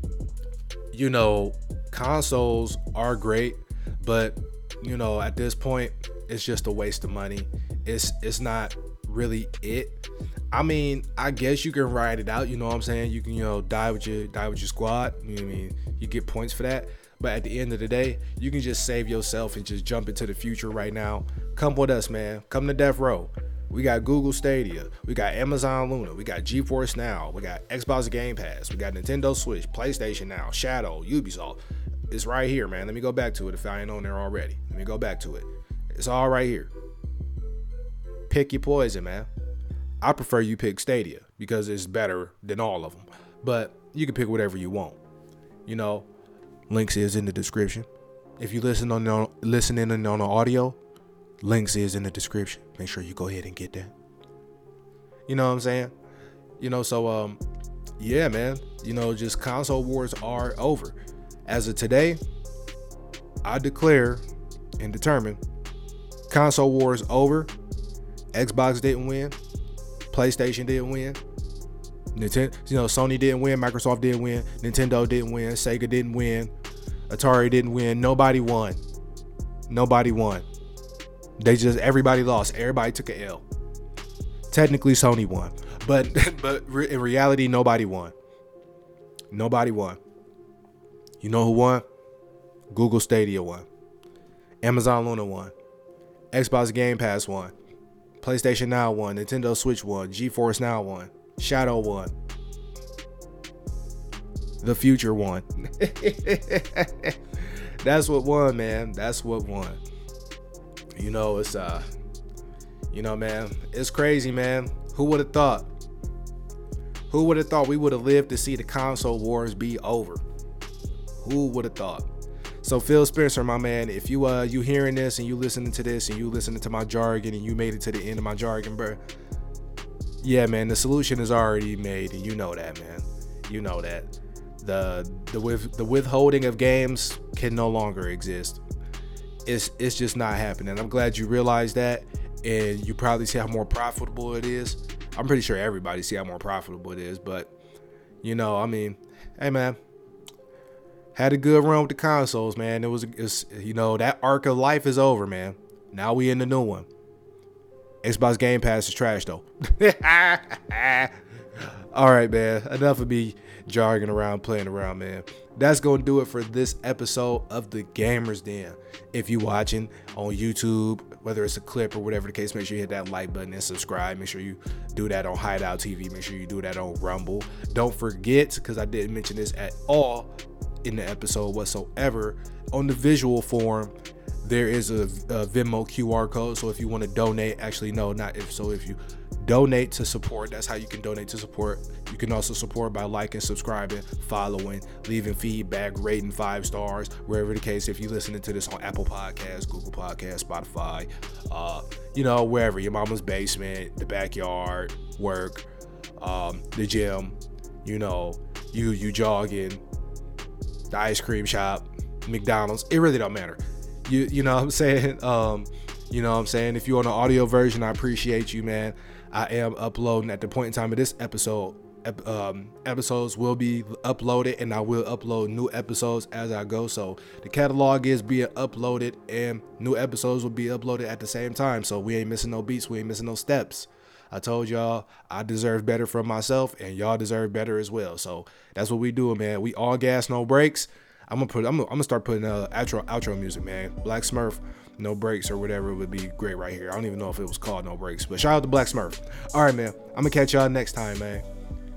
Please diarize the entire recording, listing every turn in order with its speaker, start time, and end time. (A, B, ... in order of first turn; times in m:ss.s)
0:00.9-0:36.7 A
0:38.3-0:39.3 A
0:40.0-0:45.0 A
0:45.7-0:46.1 A
0:46.7-0:47.9 A
0:48.4-0:50.8 A
0:51.4-0:53.9 A
0:55.3-0:55.9 A
0:56.6-0:57.4 A
0:58.0-1:02.2 A
1:03.4-1:04.2 A
1:04.8-1:05.4 A
1:06.3-1:07.5 A
1:08.3-1:09.4 A
1:10.1-1:11.2 A
1:12.1-1:16.5 A
1:17.1-1:18.8 A
1:19.7-1:20.4 A
1:21.4-1:23.4 A
1:24.5-1:28.1 A
1:29.3-1:30.0 A
1:31.2-1:31.8 A
1:32.7-1:33.7 A
1:34.6-1:35.5 A
1:36.3-1:37.5 A
1:38.2-1:42.2 A
1:44.6-1:49.8 A
1:50.9-1:51.8 A
1:52.9-1:55.7 A
1:57.1-2:00.2 A
2:01.2-2:02.1 A
2:02.6-2:09.0 A
2:10.2-2:18.6 A
2:19.5-2:27.6 A
2:28.2-2:29.8 A
2:31.2-2:36.9 A
2:38.0-3:00.3 A
3:00.8-3:25.7 A
3:26.2-3:29.8 A
3:30.9-4:11.4 A